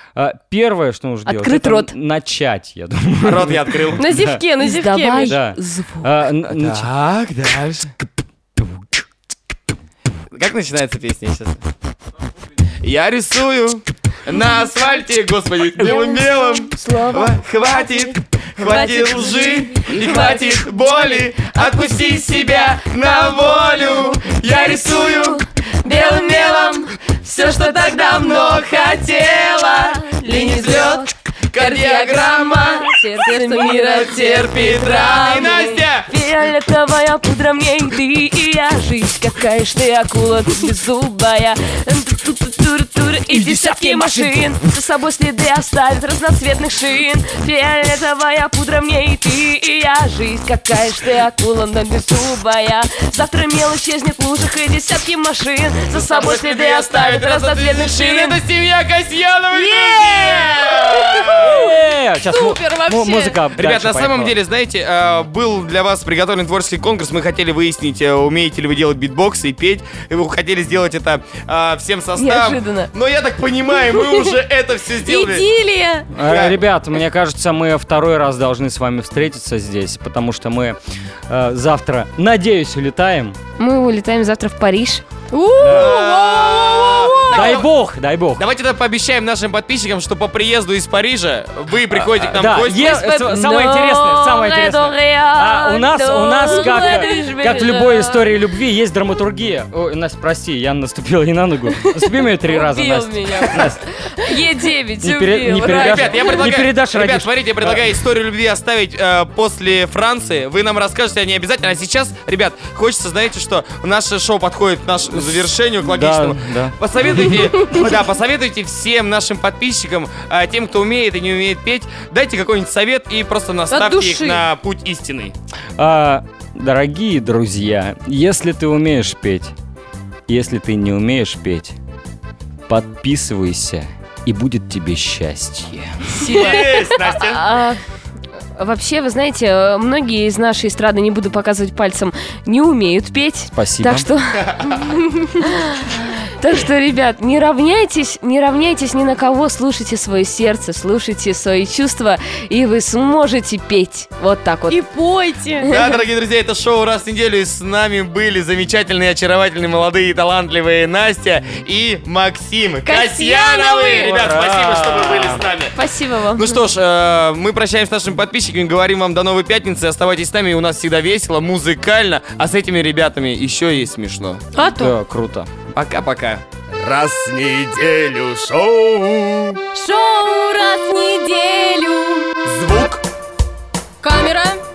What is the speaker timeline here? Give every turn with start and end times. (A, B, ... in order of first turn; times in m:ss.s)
0:00.2-0:04.4 A
0:01.2-0:01.9 B
0:03.2-0:04.0 C
0:04.0-0:05.4 D
0:04.6-0:06.1 B
0:05.2-0:06.9 A
0:06.5-0:07.9 C
0:10.3-0:11.6 C
0:12.8-0:32.9 C
0:15.8-0:22.0 B
0:24.4-0:58.4 B
0:33.1-0:35.7 D
0:33.9-0:36.1 C
0:43.3-0:44.6 A
0:55.9-1:01.6 C
0:59.5-1:03.4 D
1:01.3-1:04.4 A
1:03.5-1:15.4 C
1:12.1-1:12.9 B
1:15.0-1:16.1 D
1:16.1-1:20.8 A
1:16.2-1:16.6 C
1:21.3-1:23.4 A
1:23.6-1:25.0 B
1:25.3-1:27.6 D
1:25.6-1:27.7 C
1:27.3-1:28.4 A
1:28.4-1:32.9 C
1:31.9-1:43.8 A
1:32.6-1:38.3 B
1:36.4-1:36.9 D
1:42.4-1:46.5 B
1:45.0-1:47.8 A
1:45.6-2:05.3 C
1:55.1-1:56.8 A
2:03.7-2:04.4 D
2:05.8-2:09.5 A
2:10.3-2:11.8 A
2:12.7-2:16.1 A
2:16.2-2:17.4 C
2:16.2-2:17.8 B
2:18.6-2:34.8 B
2:23.5-2:24.1 A
2:34.7-2:35.7 D
2:35.6-2:45.7 C
2:42.8-2:44.3 D
2:44.1-2:45.3 A
2:45.7-2:46.6 B
2:46.4-2:54.4 C
2:54.5-2:54.9 D
2:54.8-2:55.5 A
2:55.7-2:56.4 C
2:56.8-2:59.4 E
2:58.3-2:58.7 C
2:59.7-3:02.3 D
3:02.4-3:03.0 C
3:04.0-3:04.6 D